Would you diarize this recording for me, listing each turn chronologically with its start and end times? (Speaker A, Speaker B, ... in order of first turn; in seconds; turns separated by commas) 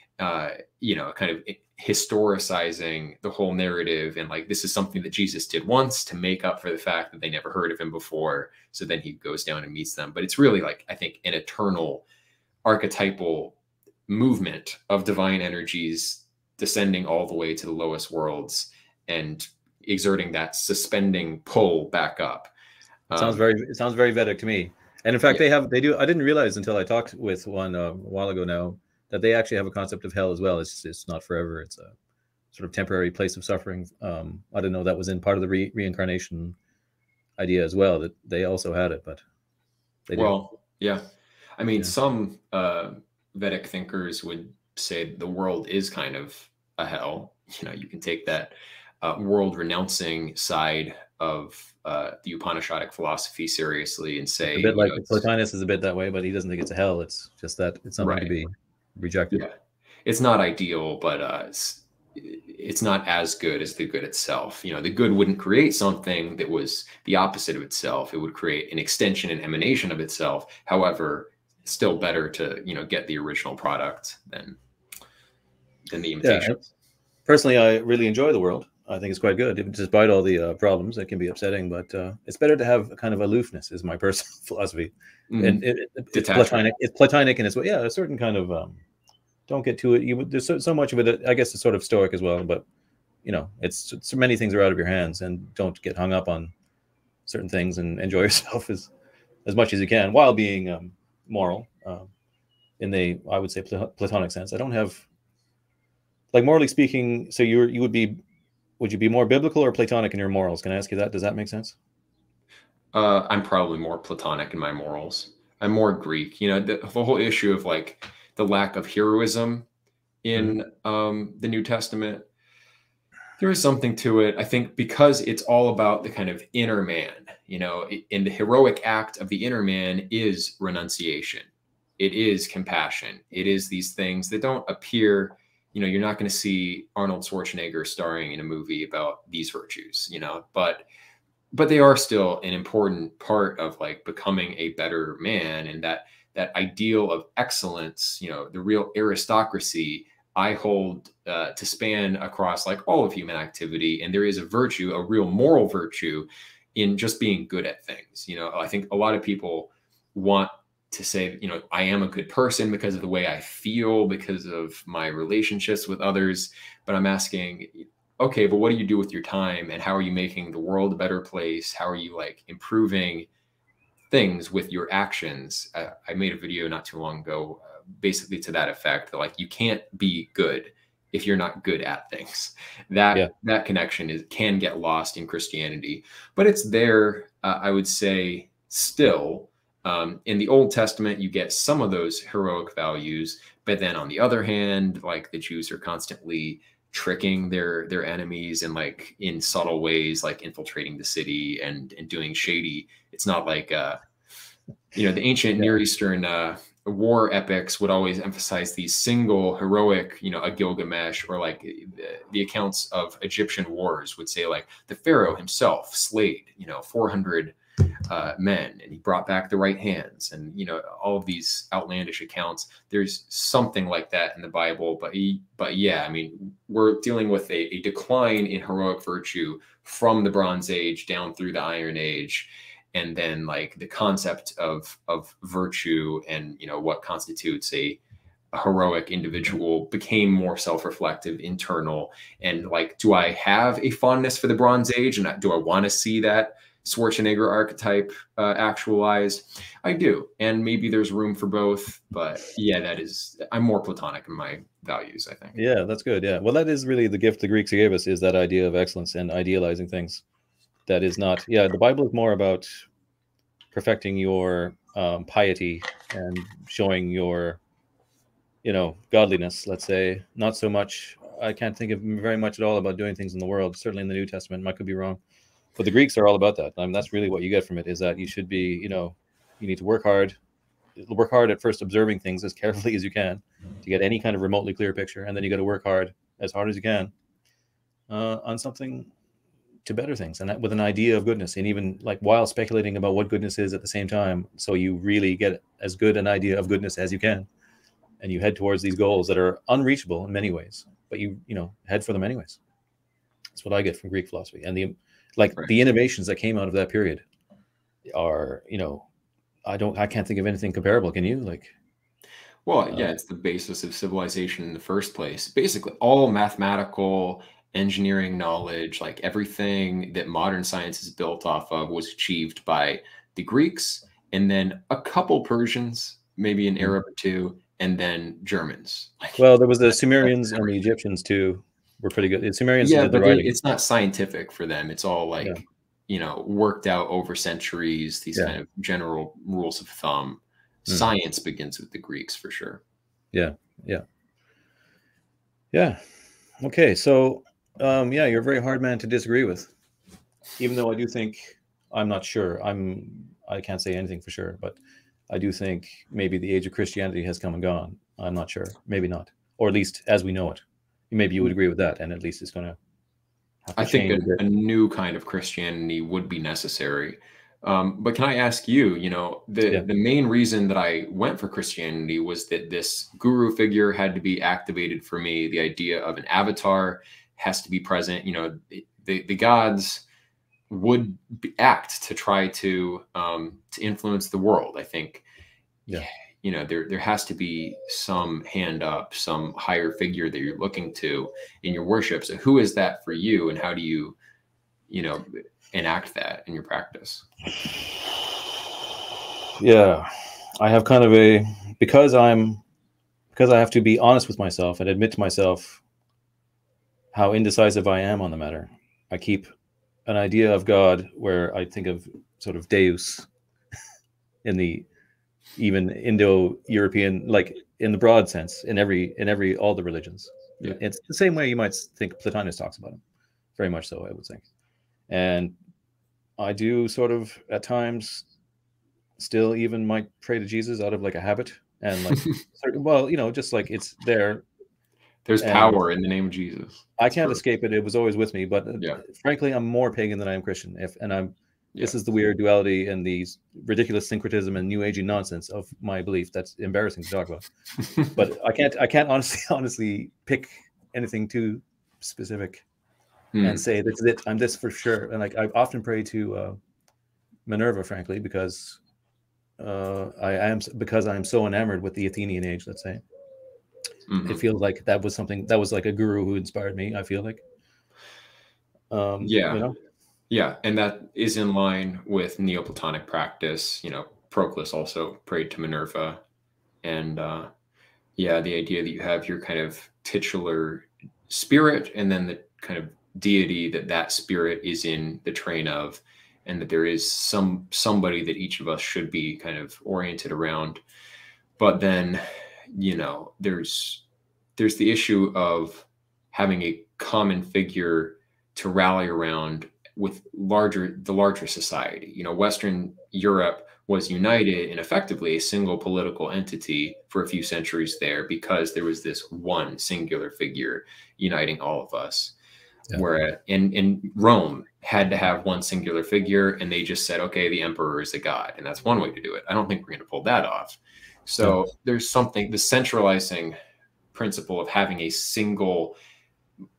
Speaker A: 0.2-12.1, Speaker A: 12.7-22.5, Speaker A: 23.1-23.4, Speaker B: 23.1-31.9, Speaker B: 32.5-36.6, Speaker B: 37.4-39.2, Speaker B: 40.1-40.4, Speaker A: 40.1-41.0, Speaker A: 41.6-55.3, Speaker B: 54.5-59.5, Speaker A: 58.0-58.3, Speaker A: 60.0-74.6, Speaker A: 75.9-76.7, Speaker B: 76.2-76.6, Speaker B: 77.3-88.8, Speaker A: 85.3-86.7, Speaker B: 89.5-92.6, Speaker B: 93.2-96.5, Speaker B: 97.3-98.9, Speaker B: 99.5-102.1, Speaker B: 102.8-105.0, Speaker B: 106.3-108.2, Speaker B: 108.8-111.8, Speaker A: 112.9-119.7, Speaker A: 120.2-122.3, Speaker A: 123.4-131.5, Speaker A: 132.0-140.9, Speaker A: 141.5-173.3, Speaker A: 174.1-204.0, Speaker A: 204.9-217.6, Speaker A: 218.1-238.0, Speaker A: 238.5-255.6, Speaker B: 255.5-260.2, Speaker B: 260.9-262.9, Speaker B: 263.7-267.6, Speaker B: 268.6-275.2, Speaker B: 275.8-280.4, Speaker B: 281.0-287.1, Speaker B: 288.1-289.1, Speaker B: 289.9-297.5, Speaker B: 298.2-302.6, Speaker B: 303.6-307.2, Speaker B: 308.1-309.1, Speaker B: 309.7-311.7, Speaker A: 312.7-329.4, Speaker B: 312.9-313.2, Speaker B: 329.4-333.6, Speaker A: 330.2-330.7, Speaker A: 332.8-342.8, Speaker B: 343.3-344.0, Speaker B: 345.7-346.1, Speaker B: 346.6-349.7, Speaker B: 350.6-354.8, Speaker B: 355.3-362.8, Speaker B: 363.7-364.4, Speaker A: 363.8-380.1, Speaker A: 380.7-385.2, Speaker A: 385.9-394.2, Speaker A: 394.9-397.2, Speaker B: 399.6-402.6, Speaker B: 403.3-405.8, Speaker B: 407.1-409.5, Speaker B: 410.1-413.3, Speaker B: 414.4-414.9, Speaker B: 415.6-423.0, Speaker B: 423.6-424.4, Speaker B: 425.1-425.5, Speaker B: 426.4-428.3, Speaker B: 429.2-434.4, Speaker A: 435.2-437.4, Speaker B: 435.4-435.8, Speaker B: 437.0-447.4, Speaker B: 448.1-452.6, Speaker A: 453.3-453.6, Speaker B: 453.4-456.6, Speaker B: 457.5-458.8, Speaker B: 459.6-463.0, Speaker A: 464.1-464.4, Speaker B: 464.2-467.4, Speaker B: 468.9-469.8, Speaker A: 469.2-469.7, Speaker A: 470.3-476.2, Speaker A: 476.8-477.5, Speaker A: 478.2-490.8, Speaker A: 491.6-494.0, Speaker A: 494.6-512.4, Speaker A: 512.9-523.5, Speaker A: 524.1-526.0